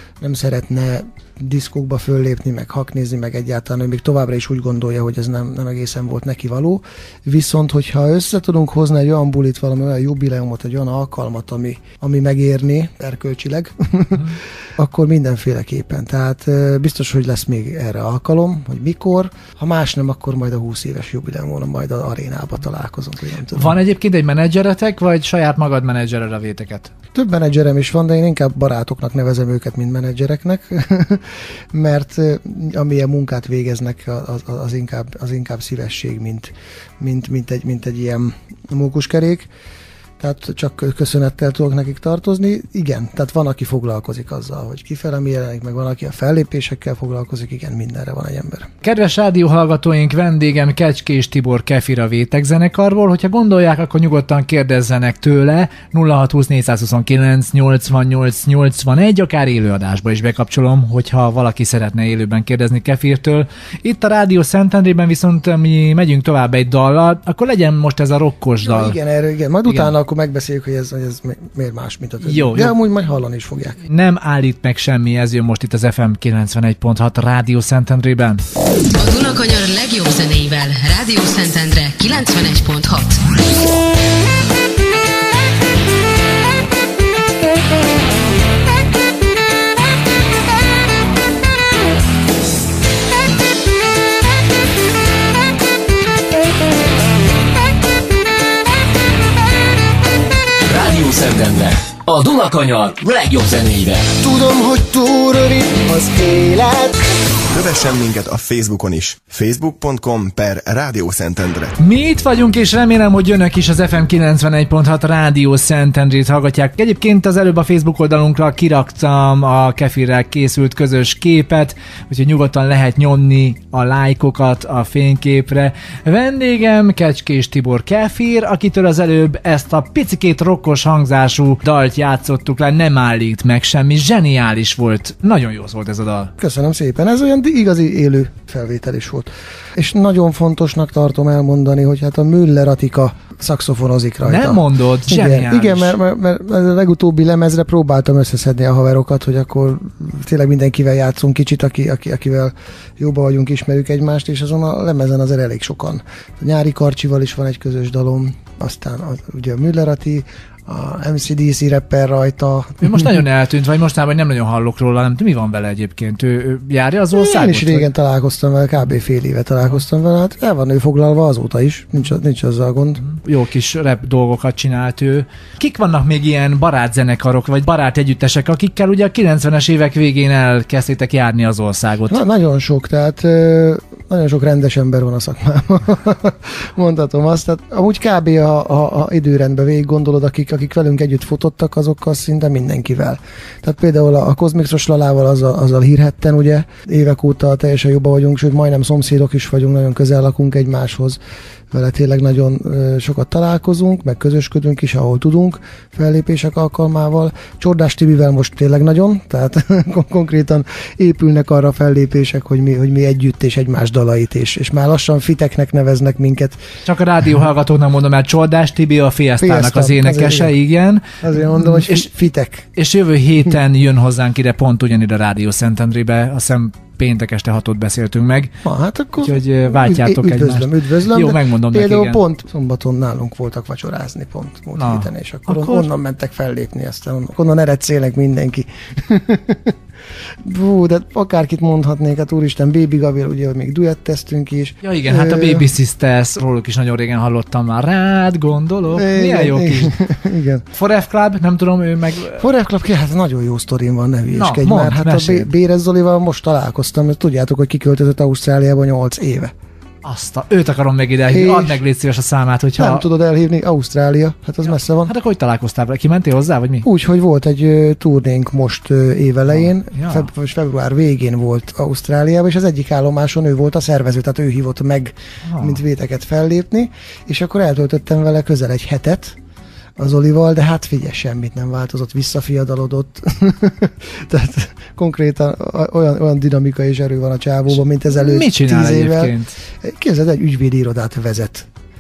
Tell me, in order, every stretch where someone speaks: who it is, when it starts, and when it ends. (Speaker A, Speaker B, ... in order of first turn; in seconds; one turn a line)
Speaker A: 0.2-23.7
Speaker B: 23.5-26.9
Speaker A: 27.1-39.5
Speaker A: 40.2-48.7
Speaker B: 48.8-69.0
Speaker A: 68.6-73.8
Speaker B: 72.2-72.8
Speaker B: 73.8-78.4
Speaker C: 78.9-83.2
Speaker D: 100.7-104.1
Speaker A: 104.2-107.1
Speaker E: 107.5-111.8
Speaker B: 111.8-136.3
Speaker A: 136.4-163.1
Speaker B: 144.2-145.9
Speaker B: 162.8-167.9
Speaker A: 167.1-173.0
Speaker B: 173.1-182.2
Speaker A: 182.1-201.2
Speaker A: 201.7-216.6
Speaker B: 216.8-222.1
Speaker A: 219.4-220.5
Speaker A: 221.2-222.7
Speaker B: 222.8-228.6
Speaker A: 228.6-239.8
Speaker B: 229.2-232.2
Speaker B: 234.8-235.9
Speaker A: 240.4-245.7
Speaker B: 244.8-250.0
Speaker A: 248.9-250.7
Speaker B: 250.7-252.4
Speaker A: 252.4-259.5
Speaker B: 254.3-255.5
Speaker B: 260.0-263.0
Speaker A: 261.3-261.8
Speaker A: 262.8-265.1
Speaker B: 264.7-266.9
Speaker A: 266.8-279.4
Speaker B: 269.6-270.3
Speaker B: 275.5-275.8
Speaker A: 280.0-291.7
Speaker B: 288.1-289.6